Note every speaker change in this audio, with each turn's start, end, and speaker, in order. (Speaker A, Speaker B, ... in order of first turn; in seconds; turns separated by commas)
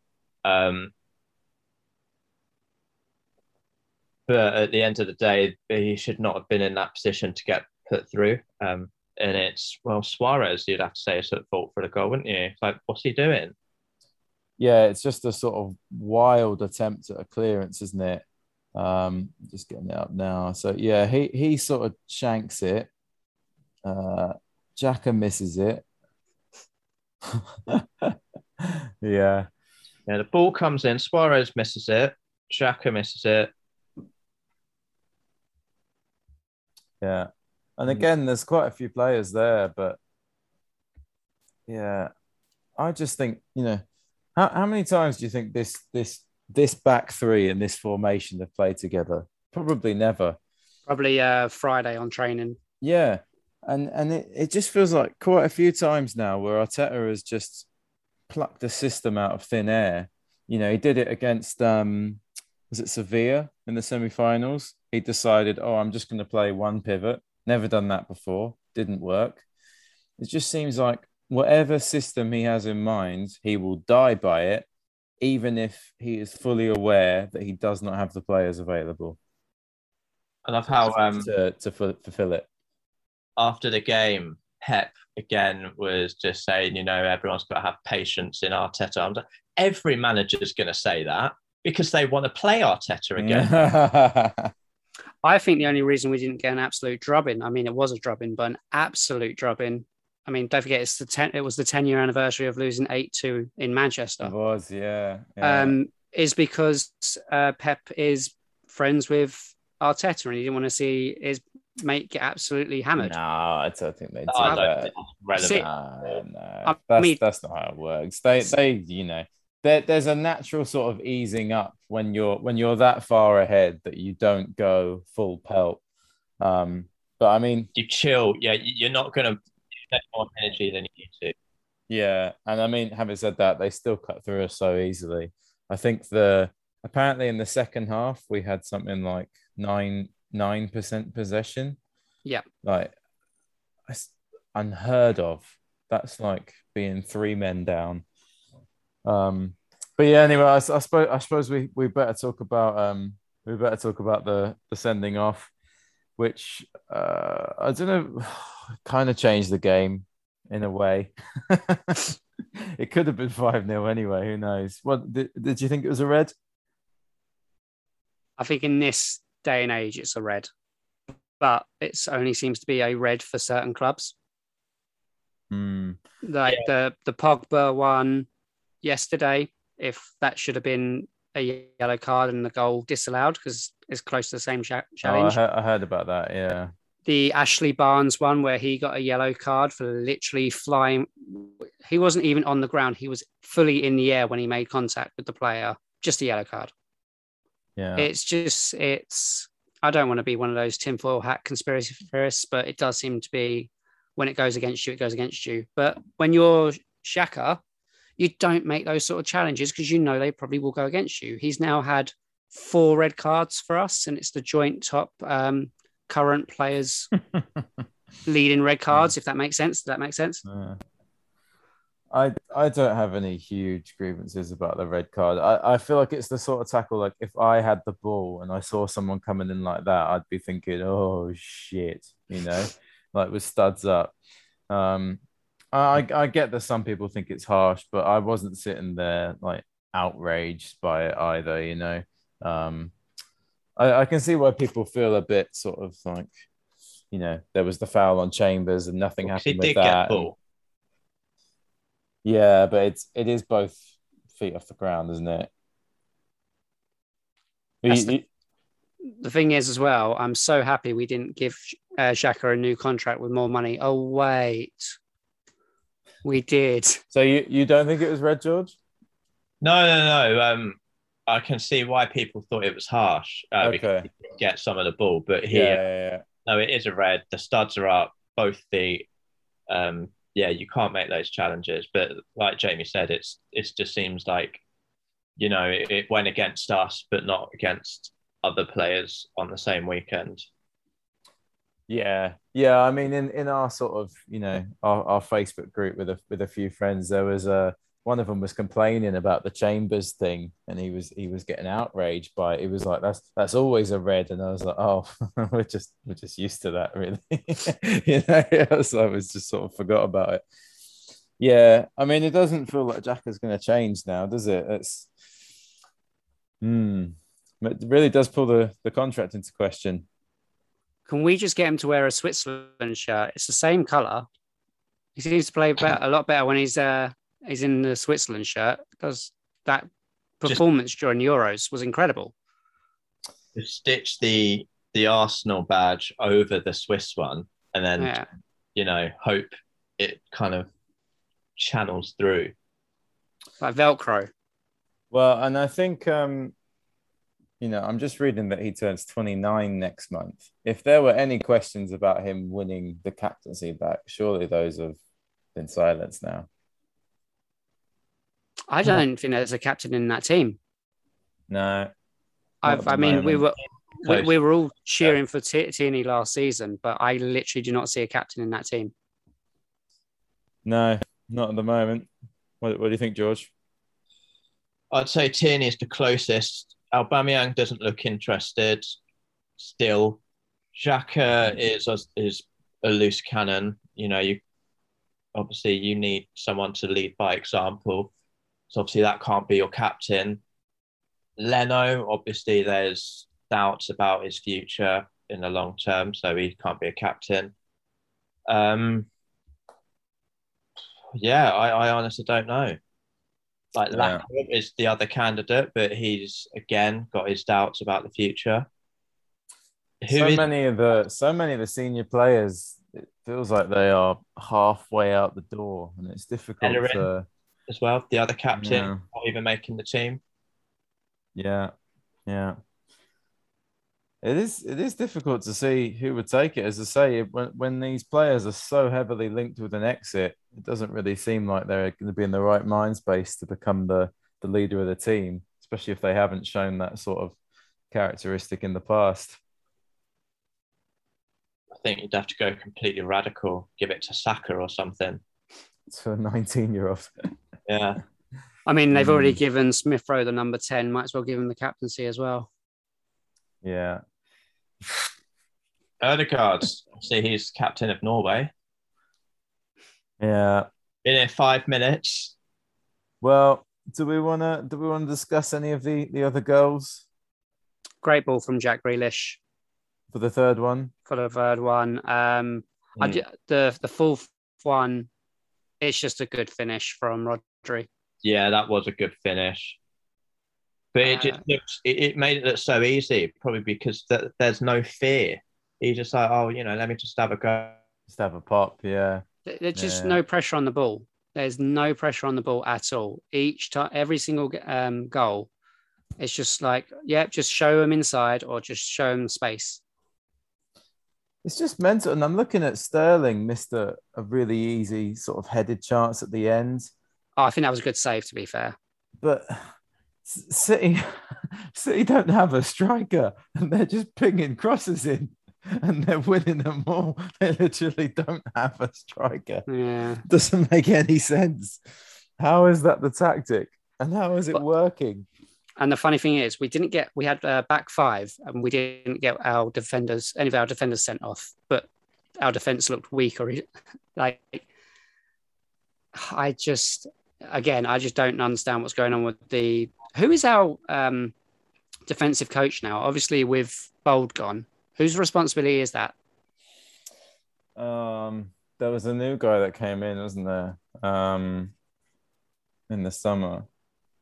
Speaker A: 0.5-0.9, Speaker A: 4.3-13.6, Speaker B: 14.6-18.2, Speaker B: 18.8-22.9, Speaker B: 23.8-25.9, Speaker B: 27.3-29.5, Speaker A: 30.1-33.5, Speaker B: 37.0-40.0, Speaker B: 41.7-42.1, Speaker B: 42.8-43.8, Speaker B: 44.4-50.4, Speaker C: 50.9-52.6, Speaker B: 52.8-57.7, Speaker B: 58.3-69.4, Speaker B: 70.2-74.7, Speaker B: 75.2-79.2, Speaker A: 80.5-81.3, Speaker B: 80.8-82.5, Speaker A: 83.4-93.6, Speaker B: 93.2-94.5, Speaker C: 95.2-104.3, Speaker B: 104.2-105.8, Speaker C: 105.4-113.2, Speaker B: 113.0-114.9, Speaker A: 114.3-115.7, Speaker C: 115.4-115.7, Speaker B: 115.4-125.8, Speaker C: 116.7-117.2, Speaker B: 126.4-127.7, Speaker A: 127.8-131.3, Speaker B: 131.9-141.8, Speaker B: 142.6-142.9, Speaker B: 143.9-148.0, Speaker B: 149.1-155.5, Speaker B: 156.2-166.3, Speaker C: 168.4-170.5, Speaker C: 171.4-174.2, Speaker B: 175.5-176.0, Speaker C: 176.2-178.3, Speaker C: 178.8-185.4, Speaker B: 185.0-186.7, Speaker C: 187.1-196.7, Speaker B: 197.8-198.1, Speaker C: 198.0-207.6, Speaker C: 208.2-217.1, Speaker C: 218.3-220.4, Speaker B: 220.4-220.8, Speaker B: 222.1-234.2, Speaker B: 234.7-235.2, Speaker B: 235.7-242.9, Speaker B: 243.8-246.3, Speaker B: 247.1-250.3, Speaker A: 249.2-250.4, Speaker B: 252.2-255.5, Speaker B: 257.8-258.2, Speaker C: 257.9-258.1, Speaker C: 259.2-264.9, Speaker C: 266.2-267.0, Speaker B: 267.1-268.8, Speaker A: 269.6-275.8, Speaker B: 273.6-274.1, Speaker B: 275.5-276.2, Speaker A: 276.5-279.1, Speaker A: 279.7-284.6, Speaker A: 285.4-290.5, Speaker B: 291.9-310.4, Speaker B: 311.4-315.1, Speaker B: 316.6-320.1, Speaker C: 321.1-324.3, Speaker C: 325.2-329.9, Speaker C: 330.4-332.3, Speaker A: 333.6-338.2, Speaker C: 338.0-338.3, Speaker A: 338.8-340.7, Speaker A: 341.6-342.5, Speaker C: 343.6-344.3, Speaker B: 345.1-346.5, Speaker B: 347.6-355.0, Speaker B: 355.6-356.5, Speaker C: 358.7-360.6, Speaker B: 361.5-361.9, Speaker C: 362.6-368.9, Speaker B: 362.7-363.5, Speaker A: 364.1-364.3, Speaker B: 370.6-372.1, Speaker B: 372.6-373.5, Speaker A: 374.9-378.9, Speaker A: 379.6-380.2, Speaker A: 380.7-384.4, Speaker A: 385.4-388.1, Speaker A: 388.7-390.4, Speaker A: 391.4-397.5, Speaker A: 398.5-399.1, Speaker A: 401.1-402.8, Speaker A: 403.8-408.7, Speaker B: 403.9-404.2, Speaker A: 410.0-410.4, Speaker B: 410.1-417.3, Speaker A: 416.6-417.1, Speaker A: 417.7-420.2, Speaker B: 418.6-419.0, Speaker B: 421.4-421.7, Speaker B: 422.3-422.6, Speaker B: 424.2-437.4, Speaker B: 437.9-439.4, Speaker A: 441.8-445.2, Speaker B: 445.9-447.3, Speaker A: 447.7-448.0, Speaker C: 448.7-452.5, Speaker B: 448.9-449.4, Speaker B: 453.6-454.0, Speaker A: 456.0-458.5, Speaker B: 460.2-460.7, Speaker A: 461.1-462.4, Speaker B: 463.2-467.1, Speaker C: 468.0-469.4, Speaker B: 470.1-470.9, Speaker C: 471.1-475.1, Speaker A: 473.0-473.2, Speaker C: 475.8-477.9, Speaker A: 478.2-479.8, Speaker A: 480.9-487.8, Speaker C: 481.1-481.4, Speaker B: 488.1-489.2, Speaker C: 489.5-495.5, Speaker B: 489.8-490.2, Speaker C: 496.2-499.8, Speaker B: 501.4-506.9, Speaker C: 507.4-508.8, Speaker B: 509.2-509.7, Speaker B: 510.2-519.7, Speaker C: 519.7-520.2, Speaker B: 520.2-521.8, Speaker B: 522.4-525.3, Speaker C: 525.8-531.9, Speaker C: 532.4-533.6, Speaker C: 534.1-534.6, Speaker C: 536.1-541.3, Speaker C: 542.1-546.1, Speaker B: 547.8-551.7, Speaker B: 552.9-553.7